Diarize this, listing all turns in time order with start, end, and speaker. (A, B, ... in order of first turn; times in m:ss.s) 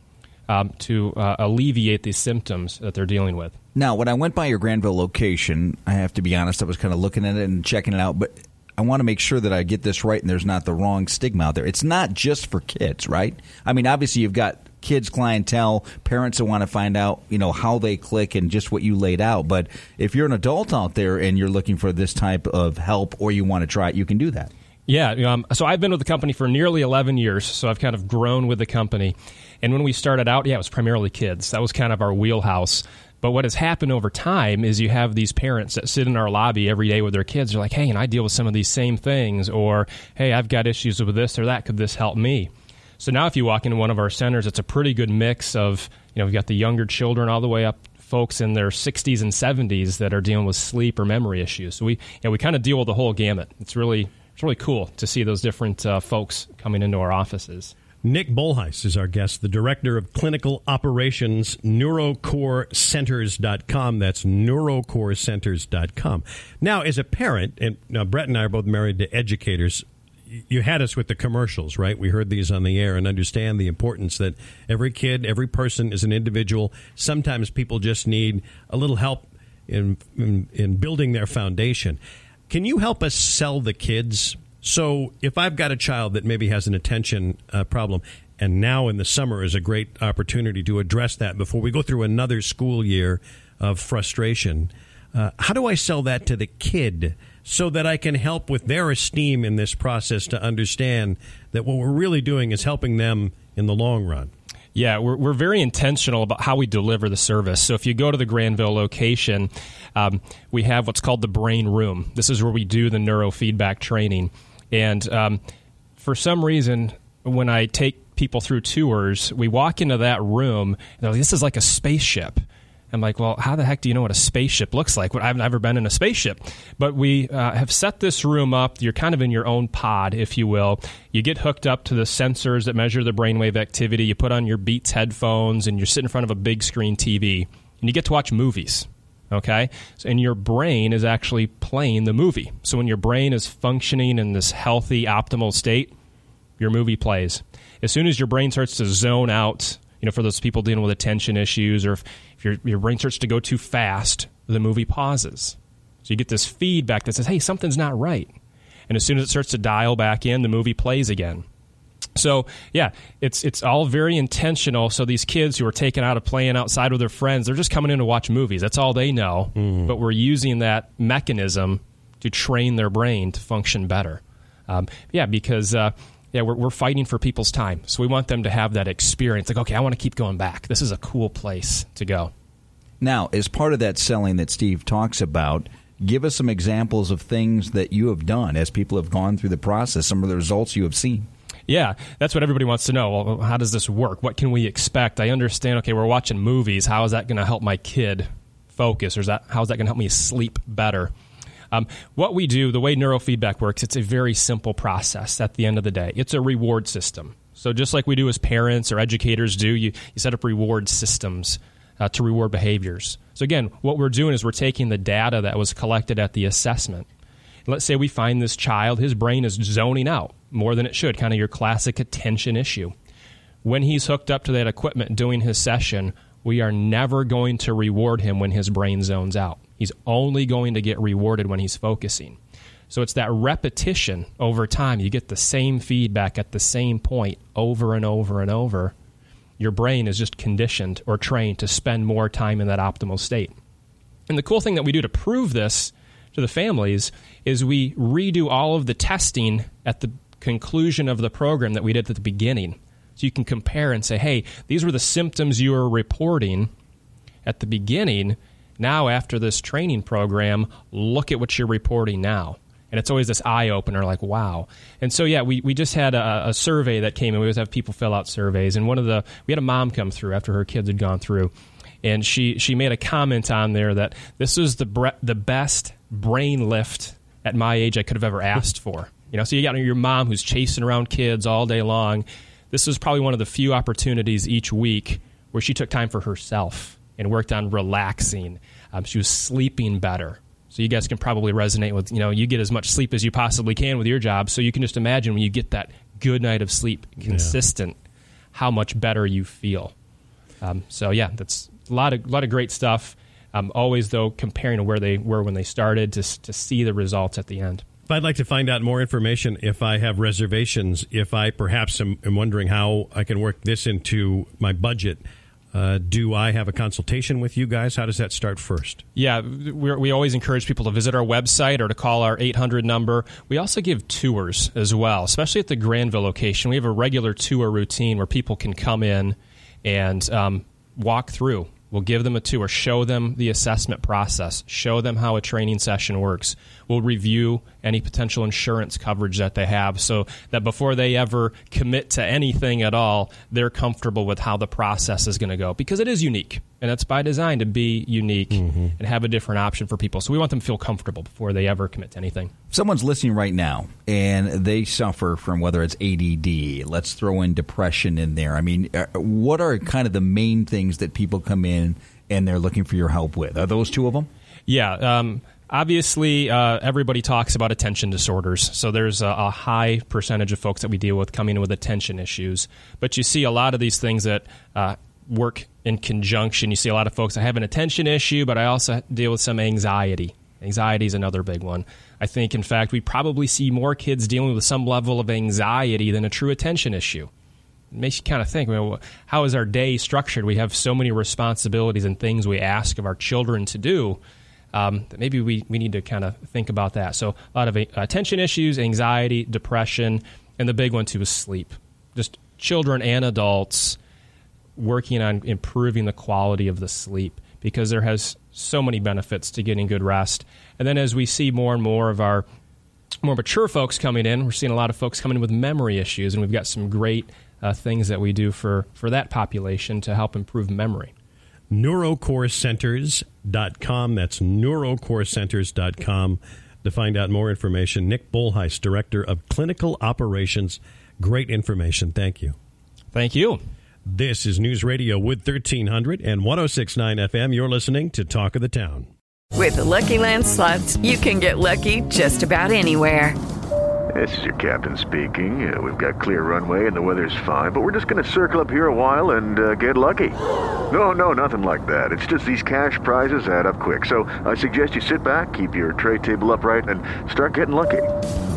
0:00.5-0:03.6 A
0:03.8-0:24.5 B
0:24.9-0:57.7 A
0:58.0-1:09.8 C
1:10.5-1:44.3 C
1:44.8-1:55.4 A
1:56.0-2:02.4 A
2:02.9-2:25.9 A
2:26.6-2:38.3 A
2:38.9-2:41.4 A
2:42.2-3:02.3 A
2:49.6-2:49.9 C
3:03.0-3:11.3 B
3:11.7-3:21.1 A
3:21.7-3:37.1 A
3:37.7-3:42.9 A
3:43.6-3:52.4 A
3:52.9-3:58.9 A
3:59.6-4:03.5 A
4:04.3-4:16.7 A
4:17.4-4:31.5 A
4:32.0-4:58.0 A
4:57.3-4:57.5 C
4:58.5-4:59.9 A
5:00.6-5:07.8 A
5:08.1-5:19.0 C
5:19.2-5:52.5 A
5:48.6-5:48.9 C
5:52.7-6:04.3 B
6:04.7-6:27.3 A
6:27.9-6:34.2 A
6:34.7-6:44.0 A
6:44.8-6:52.4 A
6:53.2-7:01.1 A
7:01.7-7:12.6 C
7:13.1-7:13.6 A
7:14.1-7:19.1 C
7:19.5-7:23.4 D
7:24.1-7:30.4 E
7:30.9-7:38.1 E